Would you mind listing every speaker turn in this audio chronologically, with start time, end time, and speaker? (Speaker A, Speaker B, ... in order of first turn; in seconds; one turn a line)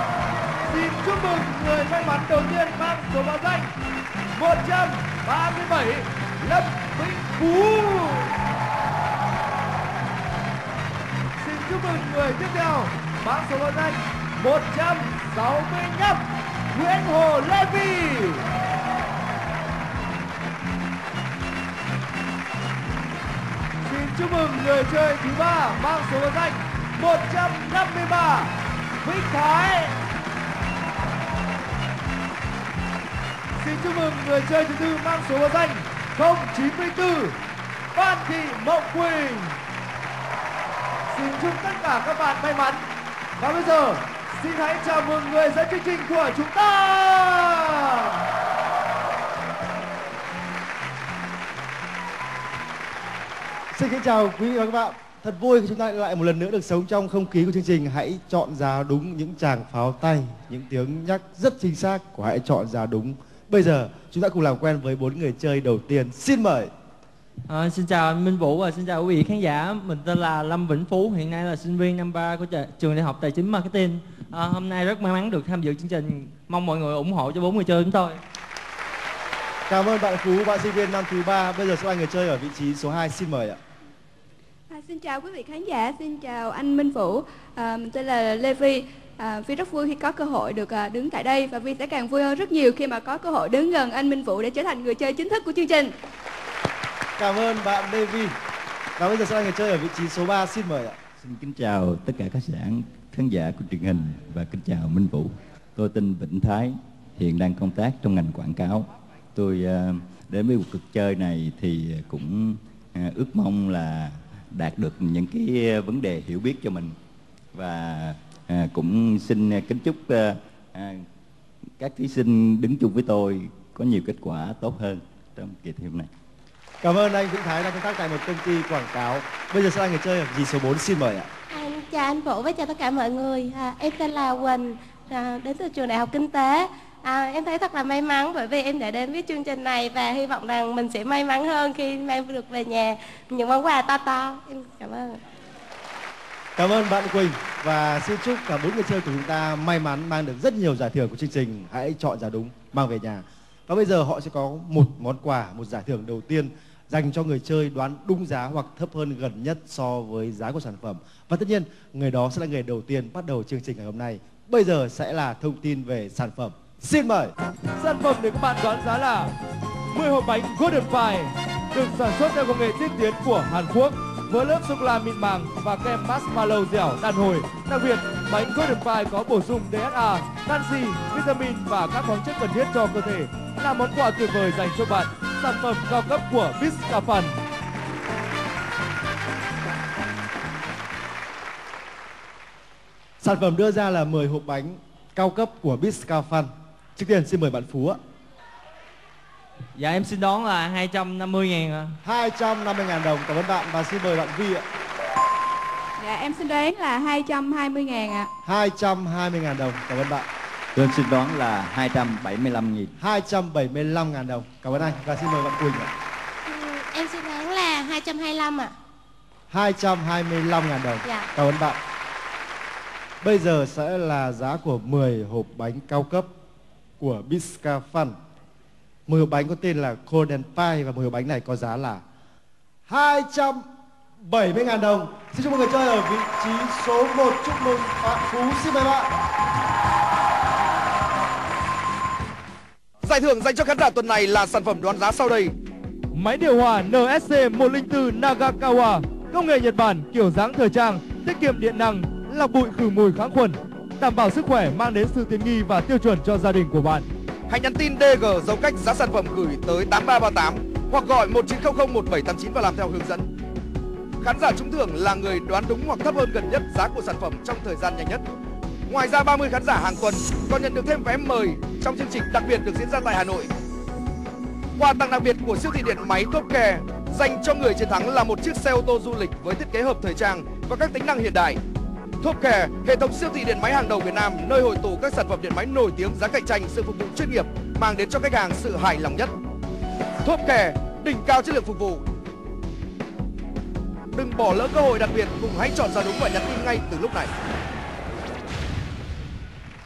Speaker A: 0.6-3.7
Speaker A: 4.3-8.3
Speaker A: 11.4-18.4
Speaker A: 23.8-30.0
Speaker A: 33.6-37.4
Speaker A: 37.9-39.6
Speaker A: 41.1-42.9
Speaker A: 43.4-48.1
Speaker B: 53.7-66.7
Speaker C: 67.5-78.2
Speaker B: 79.7-83.6
Speaker D: 84.7-95.9
Speaker B: 97.2-98.3
Speaker B: 99.0-101.0
Speaker E: 101.2-117.0
Speaker E: 117.5-121.0
Speaker E: 121.8-126.1
Speaker B: 126.8-131.3
Speaker F: 131.5-145.2
Speaker B: 146.6-167.3
Speaker A: 167.8-169.3
Speaker A: 169.9-187.4
Speaker B: 193.2-198.0
Speaker C: 199.8-201.9
Speaker B: 202.0-204.6
Speaker D: 206.0-208.3
Speaker B: 208.5-210.3
Speaker E: 210.8-212.9
Speaker B: 213.0-215.9
Speaker F: 216.5-218.7
Speaker B: 219.5-221.8
Speaker B: 223.2-226.3
Speaker B: 227.0-228.2
Speaker B: 229.1-232.0
Speaker B: 232.9-233.6
Speaker B: 234.2-239.1
Speaker G: 243.0-245.6
Speaker A: 246.1-257.1
Speaker G: 257.5-263.3
Speaker G: 264.2-268.2
Speaker G: 268.9-273.5
Speaker G: 274.8-281.6
Speaker G: 282.2-289.3
Speaker G: 290.2-292.0
Speaker G: 294.1-297.3